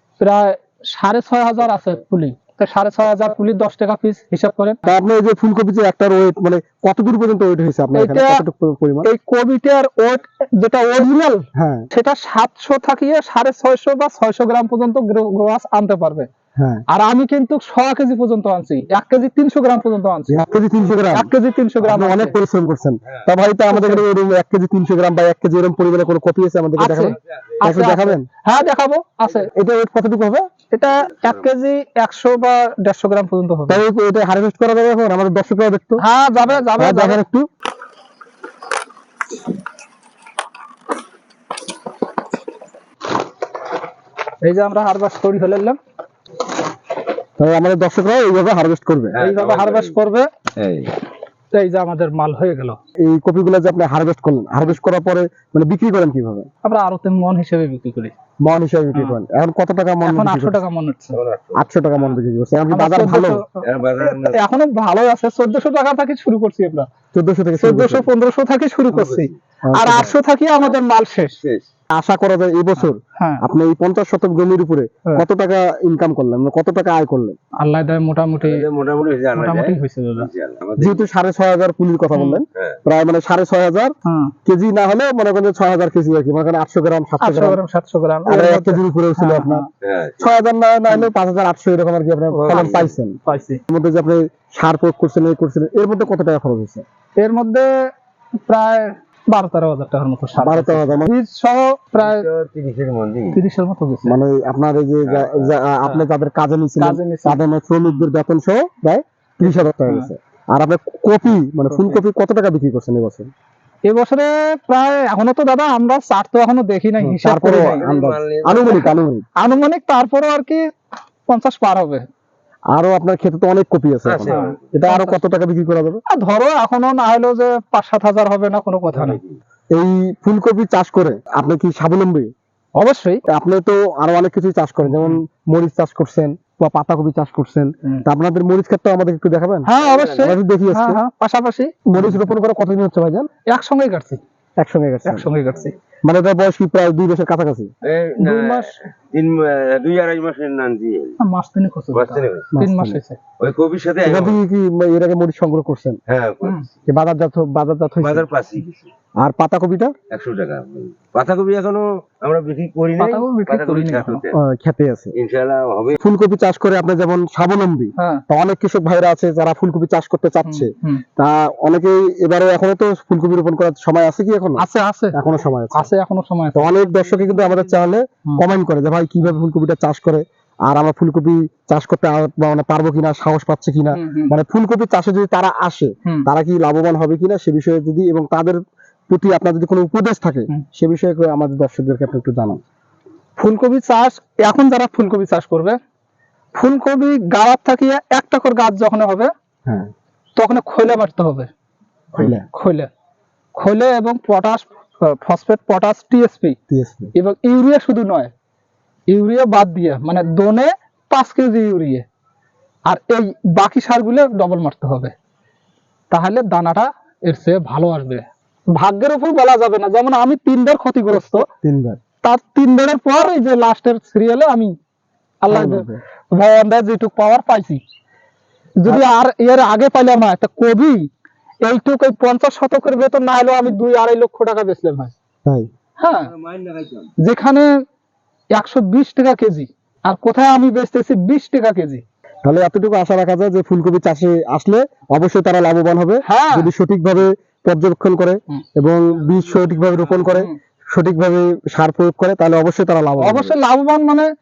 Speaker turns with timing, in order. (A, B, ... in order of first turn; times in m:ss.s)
0:00.2-0:04.8 A
0:04.9-0:09.1 B
0:07.9-0:08.4 A
0:09.0-0:16.3 A
0:11.6-0:11.9 B
0:16.6-0:16.8 B
0:16.9-0:20.6 A
0:20.3-0:21.3 B
0:21.1-0:22.4 A
0:21.8-0:28.3 B
0:23.7-0:24.0 A
0:26.8-0:29.5 A
0:29.4-0:30.5 B
0:30.7-0:33.8 A
0:33.7-0:36.0 B
0:36.0-0:37.2 A
0:36.8-0:37.5 B
0:44.4-0:45.8 A
0:47.4-0:49.2 B
0:49.1-0:50.0 C
0:49.2-0:50.3 A
0:50.6-0:50.9 C
0:51.5-0:52.8 A
0:53.0-0:56.5 B
0:56.6-0:58.1 A
0:58.4-1:00.6 B
0:58.9-0:59.2 A
1:00.1-1:01.2 A
1:01.1-1:01.6 C
1:01.6-1:03.4 B
1:02.7-1:06.9 A
1:03.6-1:04.4 C
1:07.1-1:08.1 B
1:07.6-1:11.4 A
1:08.9-1:09.3 C
1:09.7-1:10.1 B
1:11.4-1:11.7 C
1:11.9-1:17.4 B
1:12.8-1:13.4 A
1:17.6-1:18.7 A
1:18.4-1:21.1 C
1:19.3-1:20.3 A
1:20.8-1:23.9 B
1:22.1-1:22.4 A
1:24.0-1:24.3 A
1:24.5-1:27.6 B
1:27.2-1:29.7 A
1:28.3-1:29.6 B
1:29.8-1:30.4 C
1:30.2-1:33.2 B
1:32.3-1:33.6 A
1:32.5-1:32.9 C
1:33.7-1:36.8 B
1:37.2-1:37.9 A
1:38.5-1:42.3 A
1:40.4-1:41.1 B
1:42.0-1:43.4 C
1:43.3-1:44.2 A
1:44.0-1:53.3 B
1:45.0-1:45.5 C
1:46.8-1:48.0 A
1:51.7-1:52.0 A
1:53.9-1:57.8 A
1:57.0-1:59.2 B
1:57.6-1:58.9 C
1:58.7-2:00.6 A
2:01.3-2:02.1 A
2:02.8-2:06.0 B
2:04.0-2:04.6 C
2:04.2-2:05.2 A
2:06.1-2:09.2 A
2:08.9-2:09.4 C
2:09.7-2:12.3 B
2:12.8-2:13.2 A
2:13.3-2:21.0 B
2:14.8-2:15.2 A
2:19.6-2:22.2 A
2:19.8-2:20.3 C
2:21.9-2:23.3 B
2:23.5-2:24.2 A
2:24.6-2:25.3 B
2:25.0-2:25.8 A
2:26.0-2:27.7 B
2:27.8-2:31.2 C
2:28.2-2:28.7 A
2:31.2-2:33.2 A
2:31.9-2:32.5 C
2:32.5-2:33.0 B
2:33.4-2:34.4 C
2:34.0-2:36.0 B
2:36.1-2:36.7 C
2:36.9-2:38.3 B
2:38.0-2:38.9 C
2:39.2-2:39.9 B
2:40.1-2:44.4 C
2:43.0-2:44.2 A
2:44.3-2:45.2 B
2:45.2-2:46.0 C
2:46.0-2:55.9 B
2:48.0-2:48.2 A
2:50.5-2:51.0 A
2:54.6-2:55.2 A
2:55.7-2:56.7 A
2:56.5-3:08.6 B
3:03.9-3:04.3 A
3:09.1-3:12.6 B
3:13.4-3:15.8 A
3:16.6-3:19.3 A
3:20.4-3:21.5 A
3:22.2-3:22.4 B
3:22.2-3:22.9 A
3:23.6-3:26.6 A
3:26.7-3:27.1 B
3:27.2-3:28.3 A
3:29.1-3:32.0 A
3:32.9-3:35.1 A
3:36.1-3:41.5 A
3:41.5-3:42.0 B
3:42.2-3:44.7 A
3:45.4-3:47.8 A
3:45.5-3:46.0 B
3:48.8-3:51.1 A
3:51.6-3:55.1 A
3:56.0-3:56.3 A
3:56.1-3:57.1 C
3:57.2-3:57.7 A
3:58.5-4:02.0 A
4:02.4-4:13.6 B
4:06.3-4:06.7 A
4:10.3-4:10.5 A
4:13.2-4:14.3 A